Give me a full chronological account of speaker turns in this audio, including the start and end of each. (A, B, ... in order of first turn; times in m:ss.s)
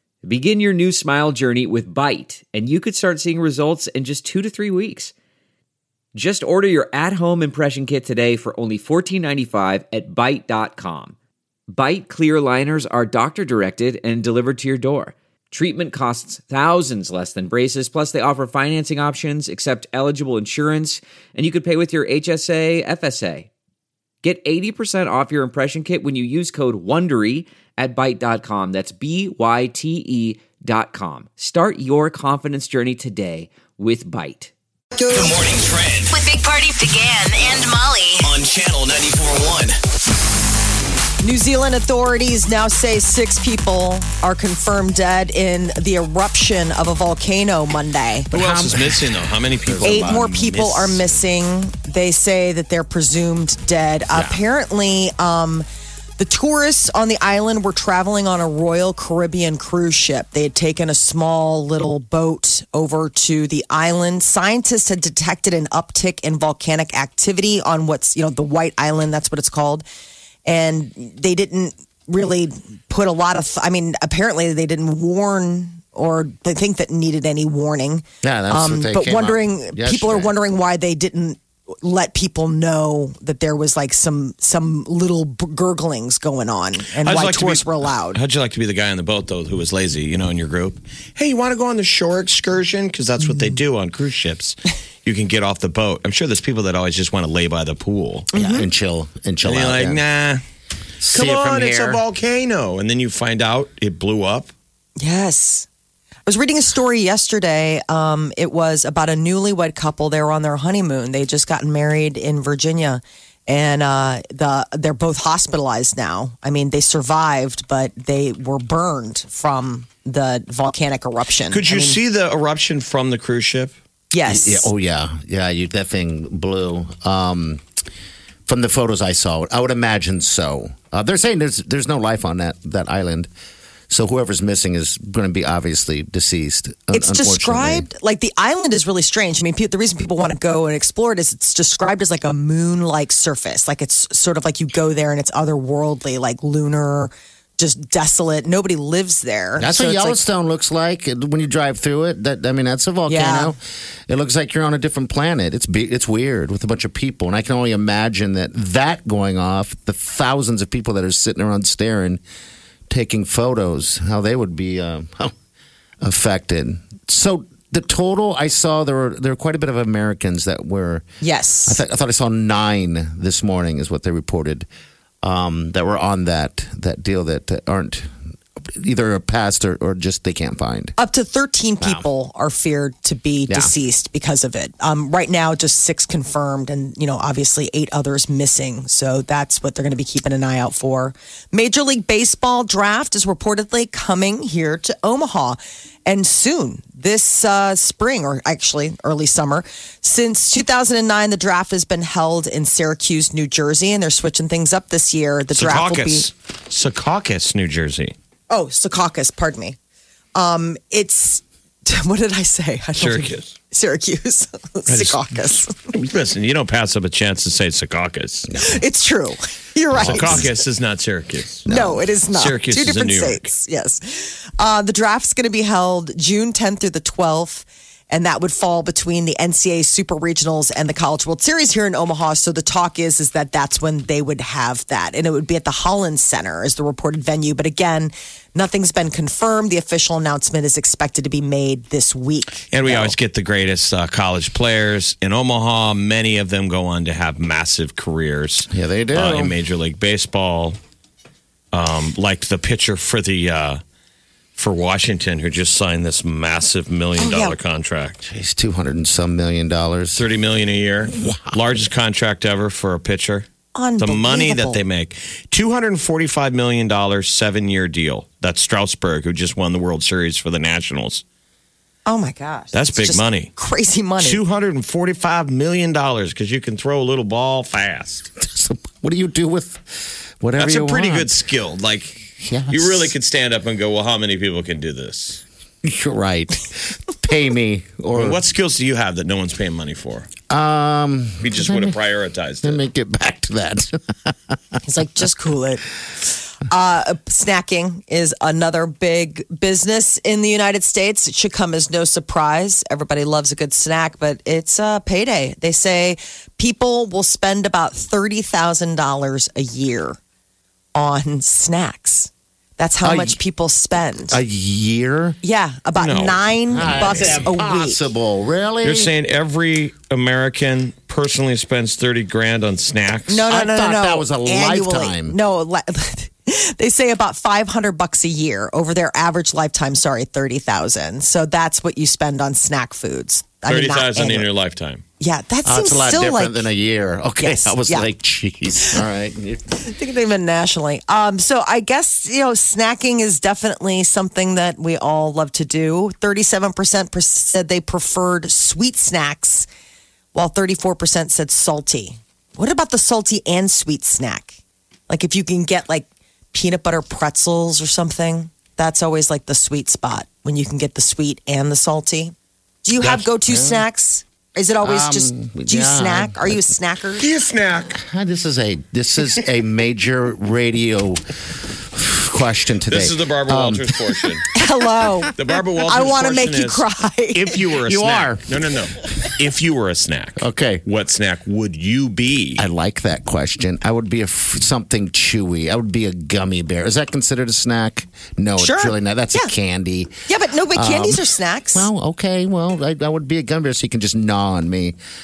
0:00.2-0:05.1 A
0:06.1-0:11.1 A
0:11.7-0:23.5 A
0:24.2-0:34.5 A
0:35.1-0:36.2 B
0:36.1-0:38.4 C
0:38.2-0:39.8 B
0:41.2-0:48.3 D
0:48.3-0:51.0 E
0:48.3-0:51.0 F
0:49.8-0:55.6 D
0:54.1-0:54.4 E
0:56.2-1:09.8 D
1:10.4-1:28.2 D
1:18.2-1:20.3 E
1:26.9-1:38.3 F
1:38.3-1:38.7 D
1:38.3-1:40.0 E
1:39.4-1:40.4 F
1:41.0-1:42.0 E
1:41.1-1:44.5 F
1:45.0-1:45.7 D
1:46.2-2:02.0 D
2:01.5-2:03.7 F
2:04.1-2:04.7 D
2:04.2-2:07.6 E
2:08.5-2:13.3 E
2:13.9-2:17.9 E
2:16.9-2:30.2 D
2:29.6-2:42.2 E
2:33.1-2:33.5 D
2:42.9-2:45.3 E
2:46.0-2:51.0 E
2:51.2-2:51.8 D
2:51.6-2:54.7 E
2:55.2-2:58.1 E
2:58.8-3:00.9 E
3:01.0-3:26.3 D
3:03.5-3:03.7 E
3:25.5-3:28.1 F
3:28.5-3:29.8 D
3:30.3-3:35.8 D
3:33.0-3:33.5 F
3:34.9-3:38.5 F
3:38.5-3:38.8 E
3:38.6-3:40.5 D
3:39.9-3:40.5 E
3:40.0-3:41.7 F
3:41.6-3:42.1 E
3:41.7-4:03.1 D
3:42.3-3:43.5 F
4:02.7-4:10.8 F
4:08.7-4:09.5 E
4:11.7-4:13.8 F
4:14.6-4:18.2 F
4:17.2-4:17.6 D
4:18.2-4:20.2 E
4:20.1-4:23.5 F
4:21.1-4:21.6 E
4:23.7-4:24.8 D
4:24.0-4:31.2 F
4:32.0-4:34.4 D
4:32.7-4:33.5 F
4:34.2-4:38.2 F
4:38.4-4:39.8 E
4:40.4-4:41.3 E
4:40.6-4:45.4 F
4:42.4-4:43.1 E
4:45.8-4:48.4 E
4:48.1-4:50.3 F
4:50.5-4:52.0 E
4:51.4-4:52.8 F
4:52.6-4:54.6 E
4:54.8-4:55.8 D
4:56.7-5:10.2 D
5:10.9-5:14.4 D
5:13.0-5:13.4 E
5:14.3-5:15.4 E
5:15.4-5:18.0 D
5:16.0-5:17.4 F
5:16.7-5:19.1 E
5:18.8-5:23.5 F
5:23.3-5:34.5 D
5:23.4-5:25.4 E
5:33.6-5:35.0 F
5:35.2-5:36.6 D
5:35.6-5:39.7 E
5:37.4-5:38.1 D
5:39.8-5:49.7 D
5:50.3-5:54.6 D
5:55.1-6:07.3 D
6:03.0-6:03.8 E
6:04.8-6:06.6 E
6:07.2-6:08.0 F
6:07.9-6:11.2 E
6:11.9-6:14.4 E
6:12.9-6:14.5 F
6:14.5-6:17.6 D
6:15.3-6:22.6 F
6:17.8-6:18.4 E
6:20.4-6:20.8 E
6:22.6-6:30.1 E
6:28.6-6:29.5 D
6:30.3-6:31.9 D
6:30.7-6:35.0 E